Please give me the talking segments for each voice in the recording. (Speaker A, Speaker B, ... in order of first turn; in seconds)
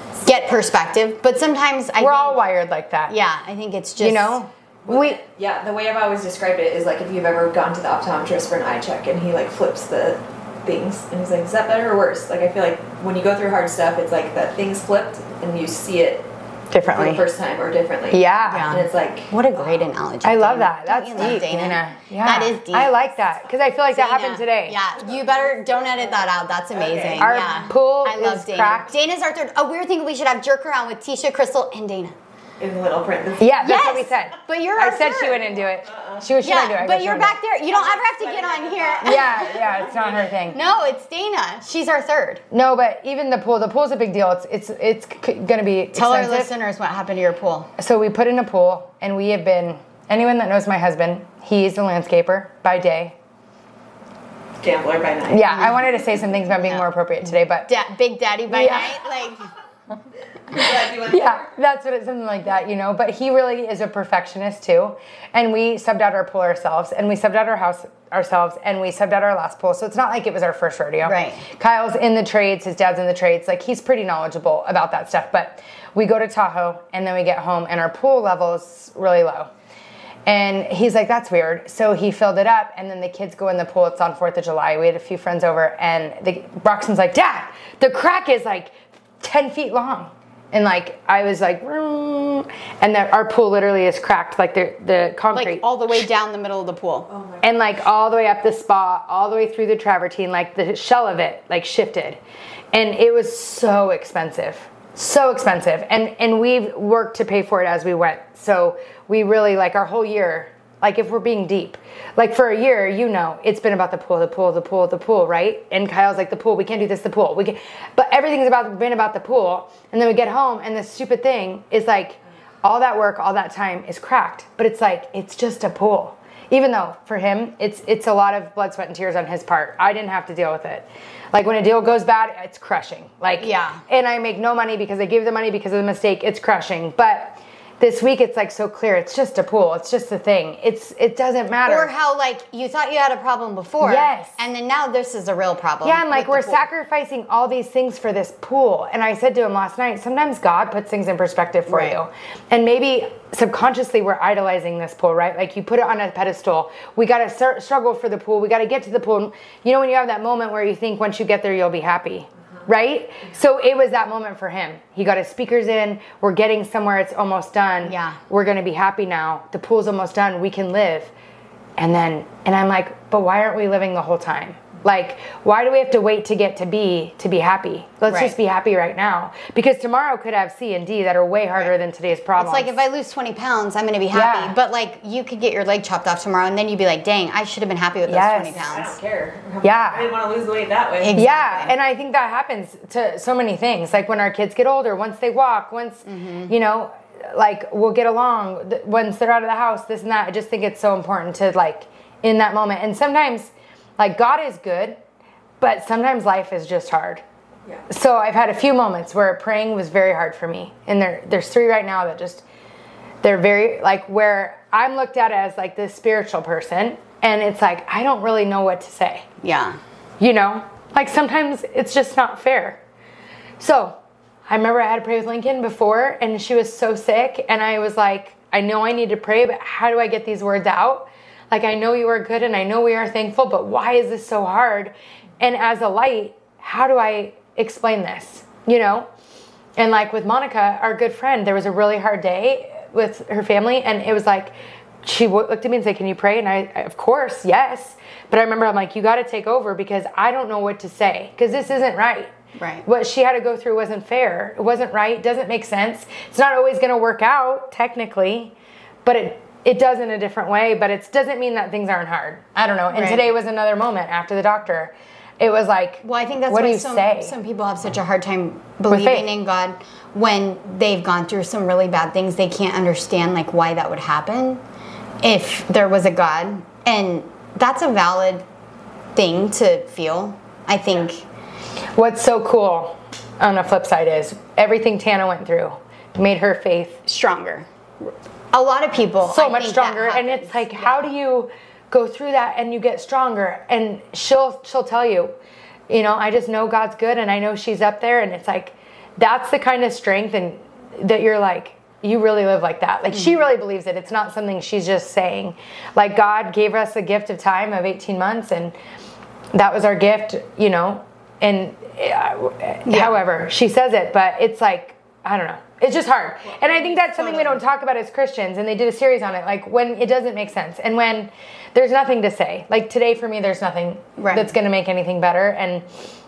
Speaker A: 0.2-2.4, 3.1-4.4, 18.5-23.0, 23.9-32.1, 33.6-35.5, 36.4-39.5, 40.5-42.4, 45.9-47.7, 55.5-56.0, 57.6-59.5, 71.0-71.5, 95.3-97.1, 133.4-133.8, 141.7-146.7, 151.7-152.0, 167.8-168.2, 178.1-178.3, 182.4-189.0, 191.0-191.7, 196.1-196.5, 219.4-219.8, 252.6-252.9, 262.9-263.2, 266.0-274.6, 275.2-278.4, 279.1-281.2, 287.1-287.7, 288.5-291.1, 312.9-313.1, 317.2-317.6, 324.2-324.5
Speaker B: 2.0-3.1, 4.0-5.2, 16.7-17.2, 18.1-18.7, 20.2-24.8, 27.2-28.9, 33.4-37.4, 39.0-40.6, 42.5-46.5, 47.8-53.1, 55.3-57.7, 58.5-59.0, 60.5-79.5, 80.3-95.6, 97.4-102.2, 102.7-141.9, 143.8-144.4, 145.8-171.1, 171.8-182.7, 184.1-184.6, 188.1-188.7, 189.6-190.1, 191.1-205.0, 205.6-207.2, 207.9-212.4, 213.2-219.3, 220.2-222.8, 223.6-239.1, 239.8-252.3, 252.9-258.5, 259.1-267.4, 268.9-269.3, 282.0-287.0, 289.3-295.4, 295.9-308.7, 309.5-325.9
Speaker C: 4.9-16.3, 16.8-19.3, 25.0-27.4, 32.6-33.8, 35.9-36.3, 37.7-40.8, 54.6-55.5, 60.5-61.5, 97.1-97.6, 188.5-191.2, 316.6-317.2